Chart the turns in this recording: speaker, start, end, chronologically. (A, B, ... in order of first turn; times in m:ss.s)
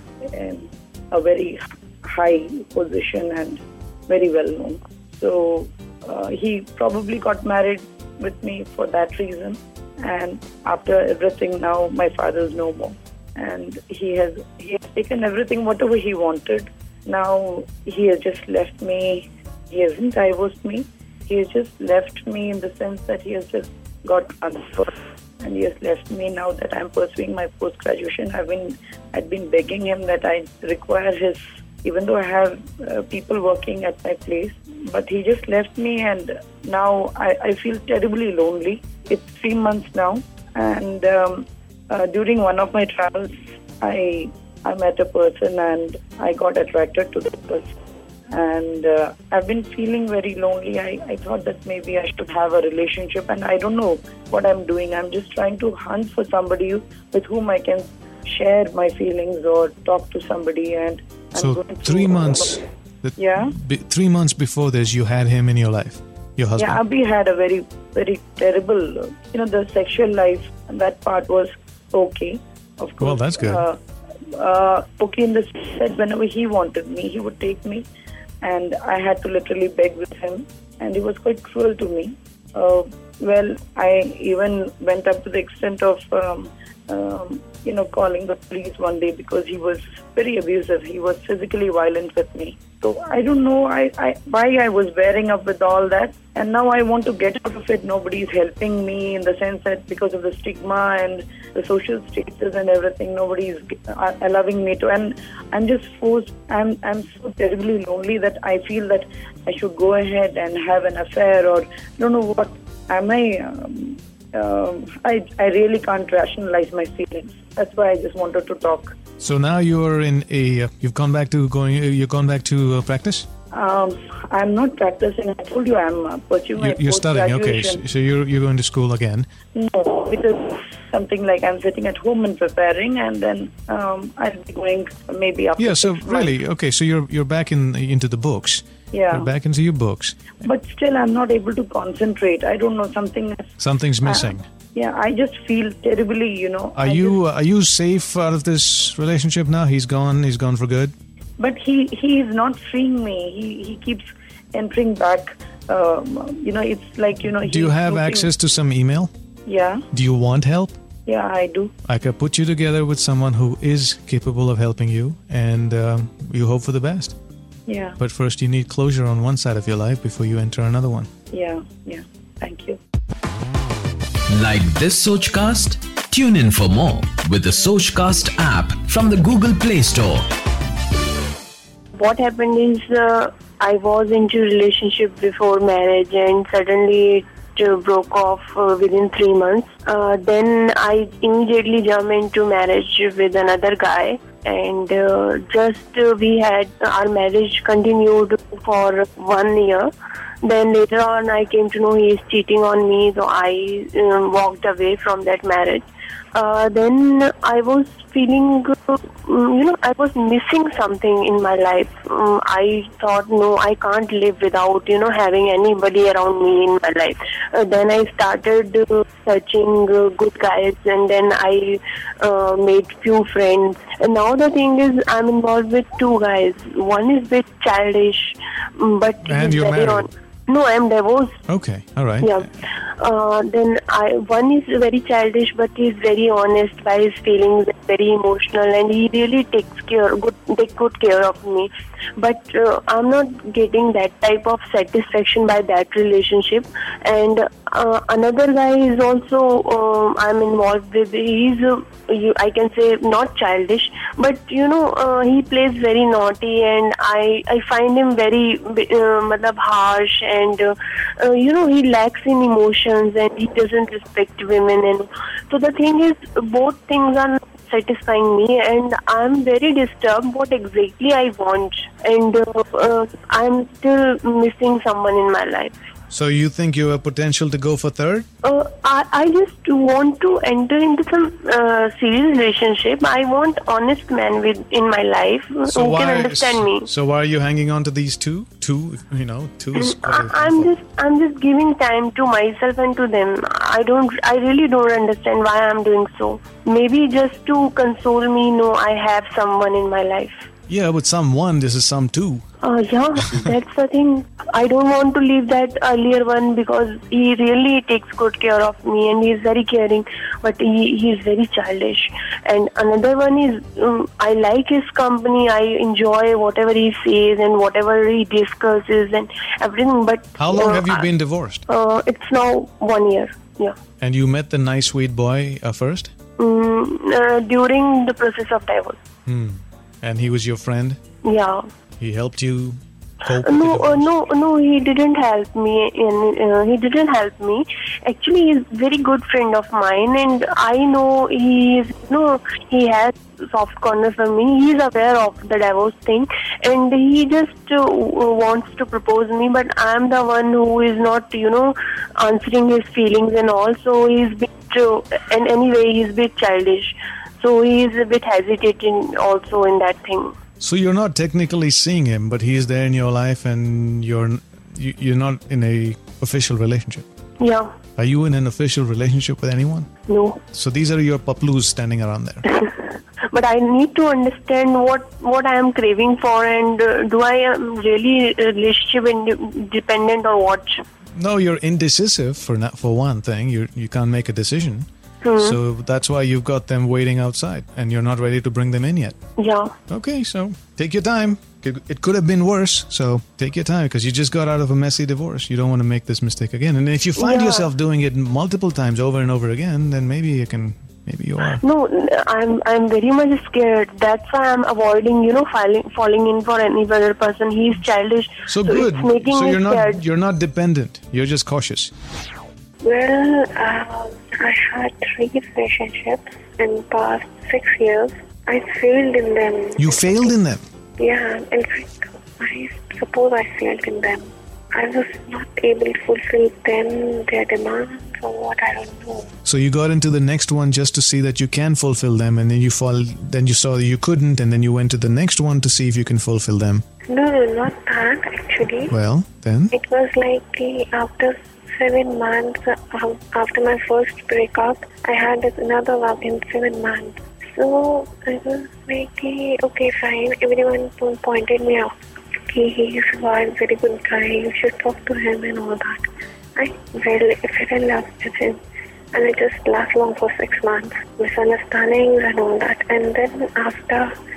0:00.2-0:47.7 A
0:48.3-1:02.6 A
1:01.4-1:06.8 B
1:03.2-1:03.6 A
1:06.6-1:13.8 A
1:13.0-1:13.7 B
1:14.3-1:17.9 A
1:18.4-1:59.0 A
1:59.2-2:03.2 B
2:03.5-2:07.8 A
2:06.6-2:09.3 B
2:09.5-2:16.4 A
2:15.6-2:20.4 B
2:18.9-2:19.3 A
2:20.4-2:27.2 A
2:23.6-2:24.4 B
2:26.8-2:30.9 B
2:31.4-2:38.3 A
2:37.4-2:39.1 B
2:39.4-2:39.8 A
2:39.9-2:40.8 B
2:41.0-2:41.7 A
2:41.8-2:47.2 B
2:47.6-2:48.0 A
2:48.0-2:51.1 B
2:51.3-2:52.8 A
2:54.3-3:00.3 C
3:01.9-3:19.9 D
3:20.4-3:51.3 D
3:49.2-3:50.1 B
3:51.5-3:52.3 B
3:52.2-4:35.7 D
4:36.1-4:38.2 B
4:38.4-4:46.9 D
4:45.7-4:50.7 B
4:49.7-5:00.4 D
5:00.7-5:02.4 B
5:02.6-5:21.1 D
5:20.4-5:21.6 B
5:21.7-5:23.7 D
5:24.0-5:26.1 B
5:26.4-5:29.0 D
5:29.2-5:31.0 B
5:31.2-5:31.6 D
5:32.0-5:34.1 B
5:33.3-6:00.4 D
6:00.6-6:07.0 B
6:07.4-6:07.7 D
6:08.0-6:09.9 B
6:10.1-6:10.4 D
6:10.5-6:12.4 B
6:12.5-6:20.8 D
6:21.1-6:24.9 B
6:25.2-6:25.6 D
6:25.4-6:29.2 B
6:29.4-6:29.7 D
6:29.9-6:41.6 B
6:37.2-6:37.7 D
6:41.4-6:50.0 D
6:48.5-6:51.9 B
6:52.8-7:00.4 E
6:59.8-7:00.6 B
7:01.0-7:09.3 E
7:09.4-7:16.8 B
7:17.1-7:18.9 E
7:18.9-7:19.7 B
7:19.7-7:31.9 E
7:32.5-7:36.1 E
7:36.6-7:38.6 E
7:39.1-7:44.1 E